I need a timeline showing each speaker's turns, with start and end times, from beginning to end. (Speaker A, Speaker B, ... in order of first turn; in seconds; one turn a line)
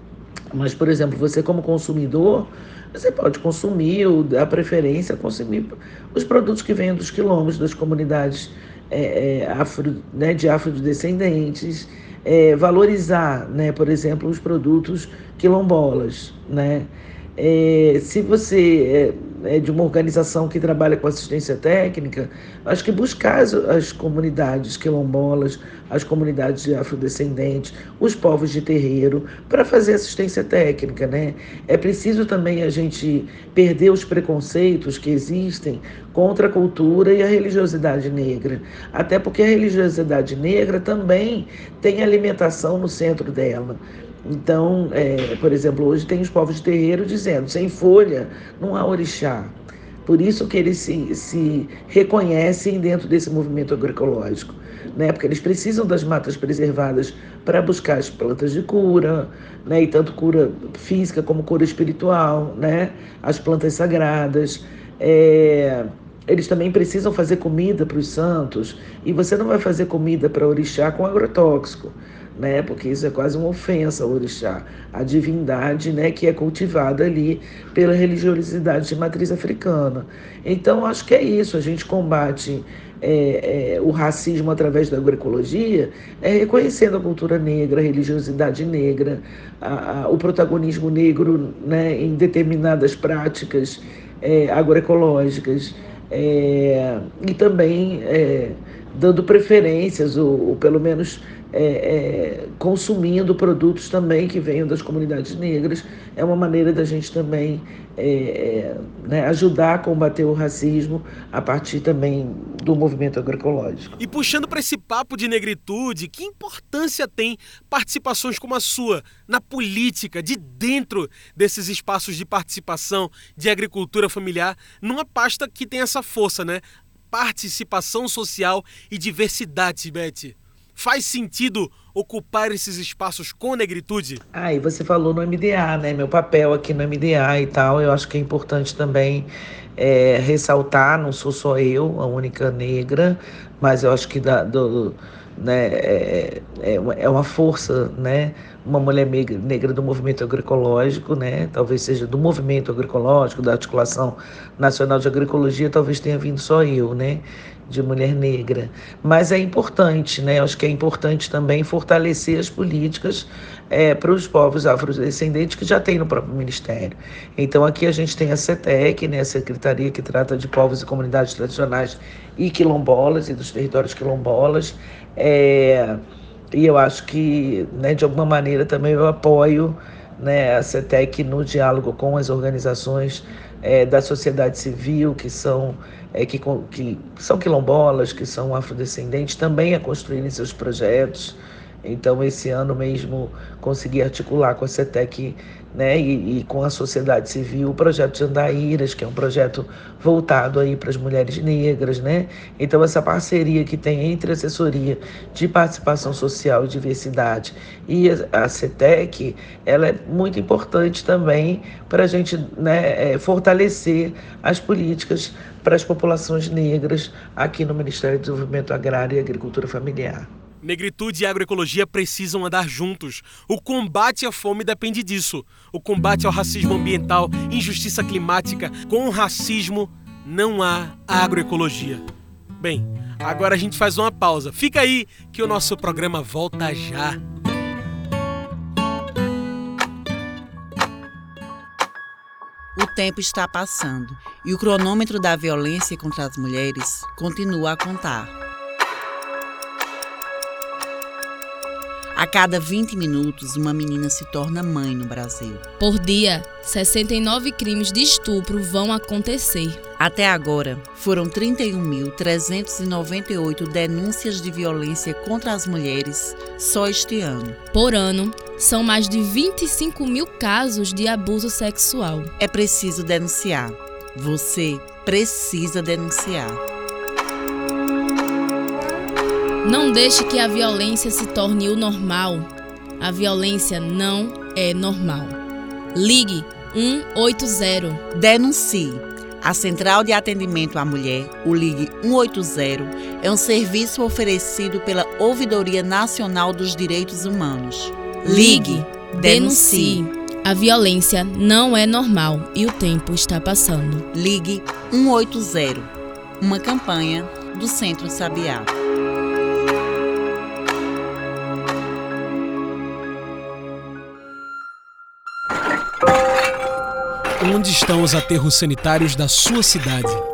Speaker A: 0.5-114.0
Speaker B: 114.0-134.2
Speaker A: 134.3-176.0
Speaker A: 176.5-220.3
Speaker B: 220.6-232.0
Speaker B: 232.6-237.2
Speaker C: 242.8-248.3
Speaker C: 252.1-255.6
Speaker D: 255.8-259.8
Speaker C: 260.0-267.6
Speaker D: 267.7-272.3
Speaker C: 272.4-276.6
Speaker D: 279.6-282.5
Speaker D: 283.0-285.4
Speaker D: 285.9-288.0
Speaker C: 288.1-300.0
Speaker D: 298.2-304.1
Speaker C: 304.1-308.7
Speaker B: 317.4-320.2